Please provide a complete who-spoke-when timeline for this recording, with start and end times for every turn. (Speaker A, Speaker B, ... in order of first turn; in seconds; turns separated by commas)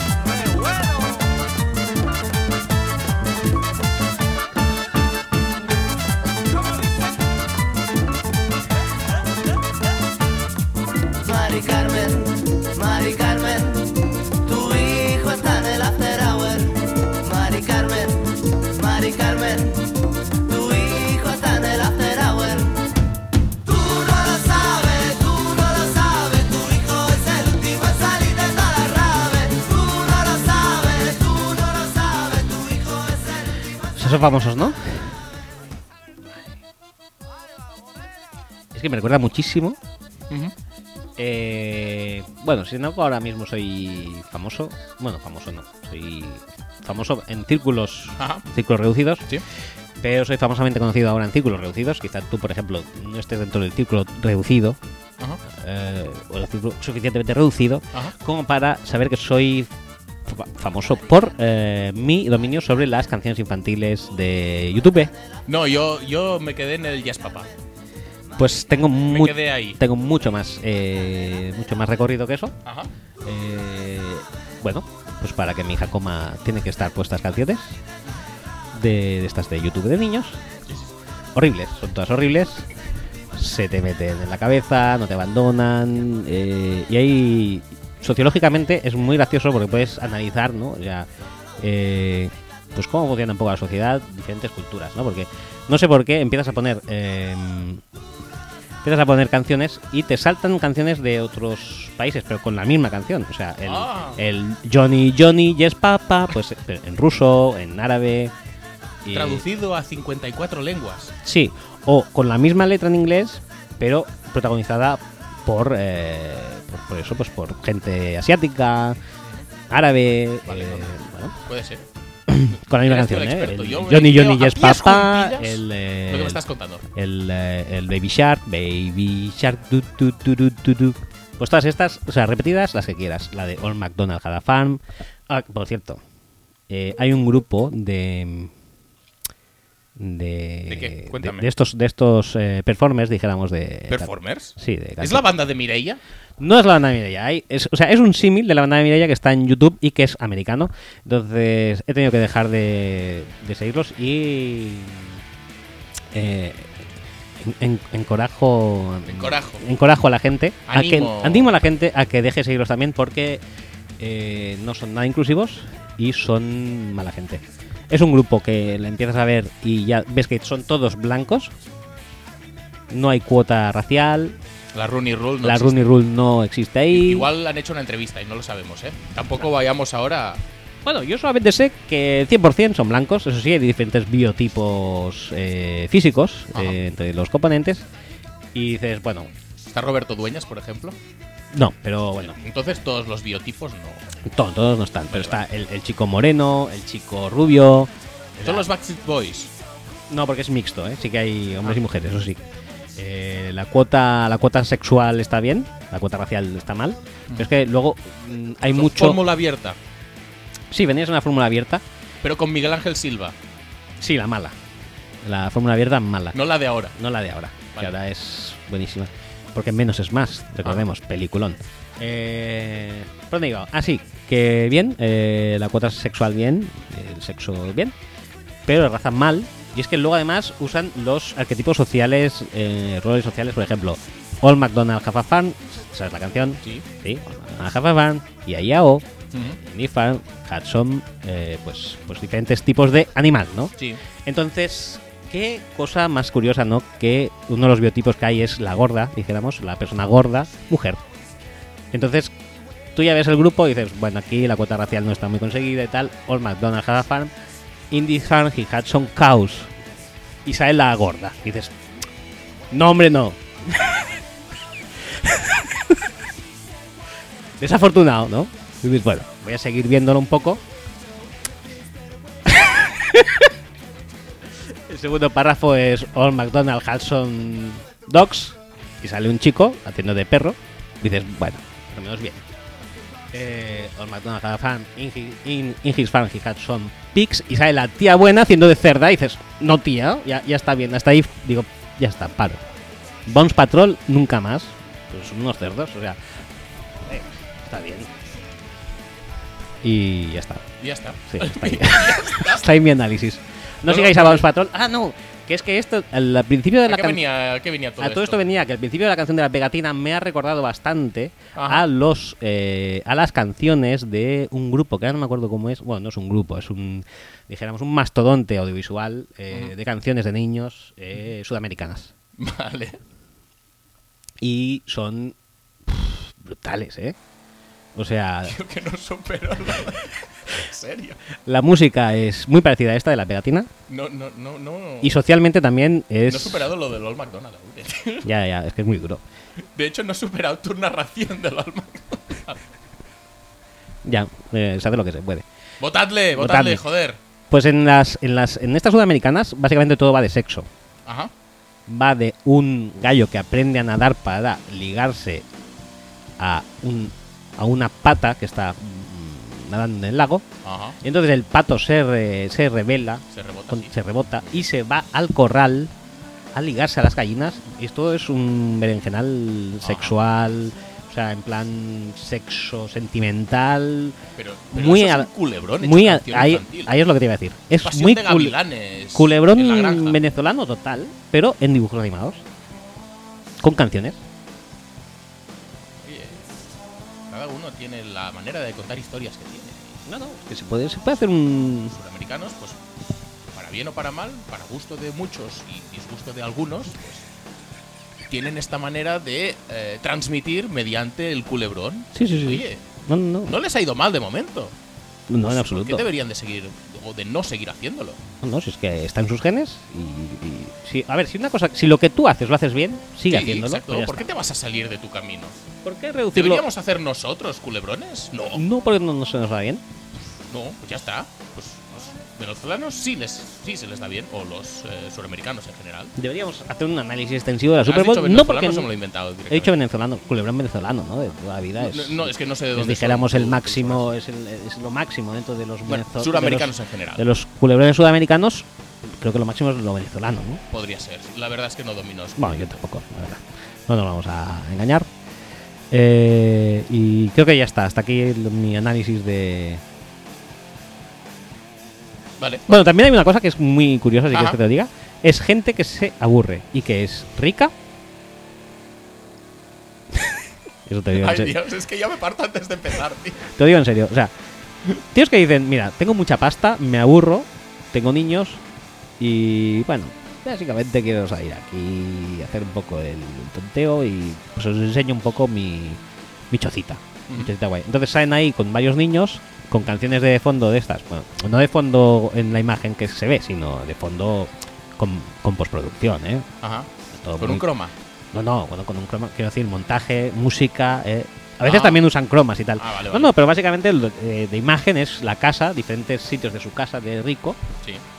Speaker A: 0.3-1.2, Speaker A: 11.2-22.9, Speaker A: 23.6-33.7, Speaker B: 34.0-35.2, Speaker B: 38.7-39.8, Speaker C: 40.3-40.5, Speaker B: 41.2-49.3, Speaker C: 48.2-48.4, Speaker B: 50.0-54.8, Speaker B: 55.5-59.7, Speaker B: 60.2-65.1, Speaker C: 65.5-67.5, Speaker B: 68.4-72.5, Speaker C: 69.1-69.8, Speaker C: 72.6-72.9, Speaker B: 73.2-77.8, Speaker B: 78.7-80.4, Speaker C: 80.7-80.9, Speaker B: 81.3-82.7, Speaker B: 83.3-97.8, Speaker B: 98.8-108.3, Speaker C: 103.6-104.2, Speaker B: 109.0-109.4, Speaker C: 109.1-111.1, Speaker B: 111.2-119.0, Speaker C: 119.2-119.5, Speaker B: 119.7-121.3, Speaker C: 120.5-121.8, Speaker B: 122.3-136.0, Speaker C: 122.8-126.8, Speaker B: 136.7-138.5, Speaker B: 139.9-145.3, Speaker C: 140.7-141.4, Speaker C: 143.9-146.0, Speaker B: 146.4-155.2, Speaker B: 156.1-156.8, Speaker B: 157.4-163.4, Speaker C: 159.1-159.6, Speaker C: 160.7-161.5, Speaker B: 164.0-171.5, Speaker B: 172.9-174.4, Speaker C: 174.7-175.8, Speaker B: 175.4-177.3, Speaker C: 176.9-180.4, Speaker B: 180.8-187.8, Speaker B: 188.5-189.3, Speaker C: 189.6-191.0, Speaker B: 191.5-192.4, Speaker C: 192.2-194.1, Speaker B: 194.2-198.7, Speaker C: 195.1-195.4, Speaker C: 198.4-199.5, Speaker B: 200.1-202.4, Speaker B: 203.0-209.2, Speaker C: 208.7-209.8, Speaker B: 210.7-211.8, Speaker C: 212.2-213.4, Speaker B: 214.0-214.5, Speaker B: 215.2-216.4, Speaker C: 216.3-216.9, Speaker B: 216.9-227.9, Speaker B: 228.7-243.7, Speaker C: 239.3-239.6, Speaker C: 243.8-244.0, Speaker B: 244.2-251.0, Speaker B: 251.9-252.3, Speaker B: 252.9-257.3, Speaker B: 257.9-259.7, Speaker B: 260.4-261.7, Speaker B: 262.7-264.1, Speaker B: 265.1-266.0, Speaker B: 267.6-270.6, Speaker B: 272.4-273.5, Speaker B: 274.7-282.4, Speaker B: 283.3-292.6, Speaker B: 293.3-296.2, Speaker B: 297.1-298.1, Speaker B: 299.8-300.7, Speaker C: 300.8-302.7, Speaker B: 301.3-307.2, Speaker C: 303.8-304.5, Speaker C: 306.9-308.4, Speaker B: 308.0-322.1, Speaker C: 311.5-311.8, Speaker C: 322.4-323.0, Speaker B: 324.4-325.3, Speaker B: 325.9-327.1, Speaker B: 327.9-328.6, Speaker C: 328.5-331.2, Speaker B: 331.4-333.7, Speaker C: 333.9-335.2, Speaker B: 335.0-336.7, Speaker C: 336.3-338.3, Speaker B: 338.2-339.2, Speaker C: 339.6-342.6, Speaker B: 344.0-345.4, Speaker C: 345.8-347.2, Speaker B: 346.3-346.8, Speaker B: 347.5-350.7, Speaker C: 351.0-351.3, Speaker B: 351.9-355.4, Speaker B: 356.4-360.4, Speaker C: 360.6-361.0, Speaker B: 361.0-365.9, Speaker C: 363.3-364.7, Speaker B: 366.5-374.2, Speaker C: 369.8-370.1, Speaker C: 374.4-377.0, Speaker B: 374.7-378.6, Speaker C: 377.8-380.2, Speaker B: 379.1-382.4, Speaker B: 383.6-384.2, Speaker C: 386.0-386.5, Speaker C: 387.3-390.0, Speaker B: 390.1-391.9, Speaker C: 391.9-392.8, Speaker C: 393.5-397.3, Speaker C: 398.3-402.8, Speaker B: 402.1-403.6, Speaker C: 403.5-404.8, Speaker B: 405.3-406.1, Speaker C: 405.5-408.2, Speaker B: 408.4-414.2, Speaker C: 413.3-415.6, Speaker B: 415.8-416.6, Speaker C: 416.3-418.6, Speaker B: 418.5-419.8, Speaker C: 420.5-426.1, Speaker B: 426.1-428.9, Speaker C: 427.9-429.8, Speaker B: 429.5-440.6, Speaker C: 431.8-434.1, Speaker C: 435.9-437.2, Speaker C: 440.7-442.7, Speaker B: 442.4-445.1, Speaker B: 445.9-449.8, Speaker C: 452.4-452.8, Speaker B: 452.7-457.7, Speaker C: 454.3-454.6, Speaker B: 460.9-461.6, Speaker C: 461.1-463.4, Speaker B: 463.5-464.3, Speaker B: 465.0-468.6, Speaker B: 469.2-476.0, Speaker B: 476.5-486.5, Speaker C: 486.6-487.9, Speaker B: 487.1-487.7, Speaker B: 488.3-497.6, Speaker C: 491.6-492.0, Speaker C: 492.8-493.3